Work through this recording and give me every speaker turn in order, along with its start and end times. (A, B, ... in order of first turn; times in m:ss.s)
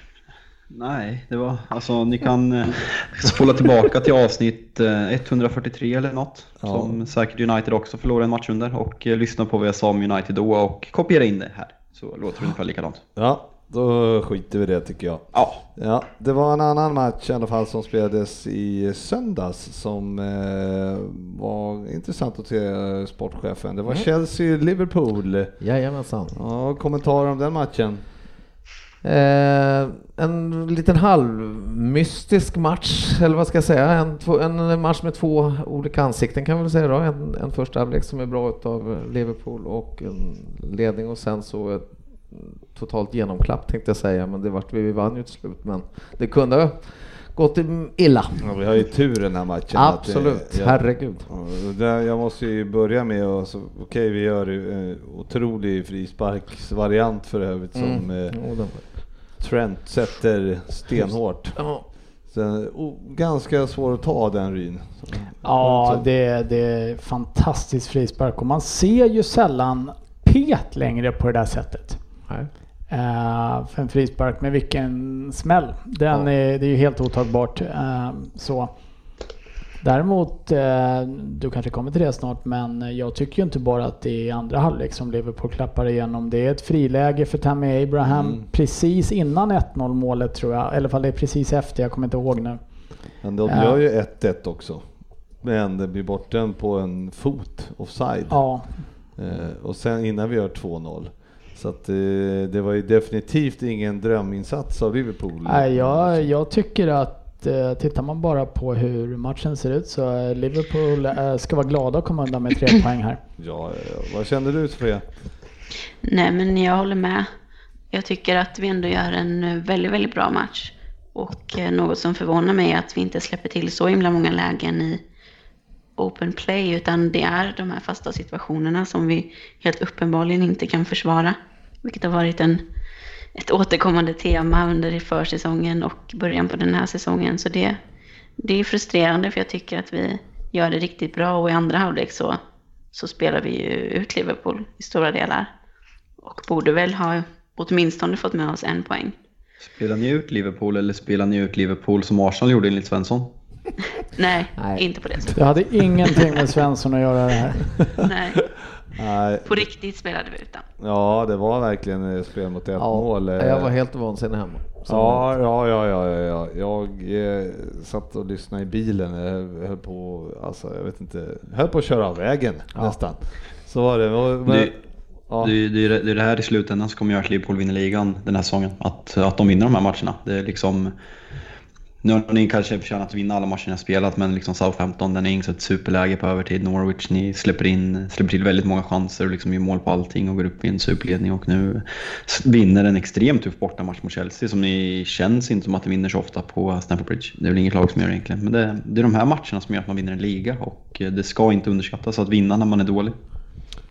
0:00.7-0:13.0 A
0:06.6-0:07.0 B
0:13.2-0:25.6 B
0:15.3-0:15.6 A
0:25.6-0:26.4 C
0:26.3-0:28.0 B
0:29.0-0:48.5 C
0:48.4-1:01.6 B
0:49.7-0:51.3 C
0:57.8-0:59.1 C
1:00.9-1:01.8 C
1:02.3-1:06.0 B
1:05.4-1:12.0 D
1:12.9-1:18.7 D
1:19.8-1:32.6 D
1:28.1-1:28.4 B
1:33.2-1:34.9 B
1:33.5-1:33.8 D
1:35.4-1:38.5 B
1:38.3-1:38.7 D
1:39.2-1:46.3 B
1:45.5-1:53.2 D
1:53.4-1:55.1 B
1:56.0-1:57.3 E
1:57.9-2:05.0 E
2:06.0-2:12.6 E
2:13.4-2:17.8 E
2:18.4-2:22.4 E
2:22.9-2:25.5 E
2:26.2-2:29.1 E
2:29.6-2:33.3 A
2:34.2-2:35.4 E
2:34.6-2:34.9 C
2:35.4-2:37.7 D
2:38.0-2:38.5 E
2:39.0-2:39.7 B
2:39.5-2:40.6 E
2:40.8-2:43.7 B
2:42.8-2:45.3 C
2:44.9-2:54.8 B
2:54.5-2:54.7 A
2:55.3-2:55.5 B
2:55.4-3:00.9 A
3:02.0-3:23.2 A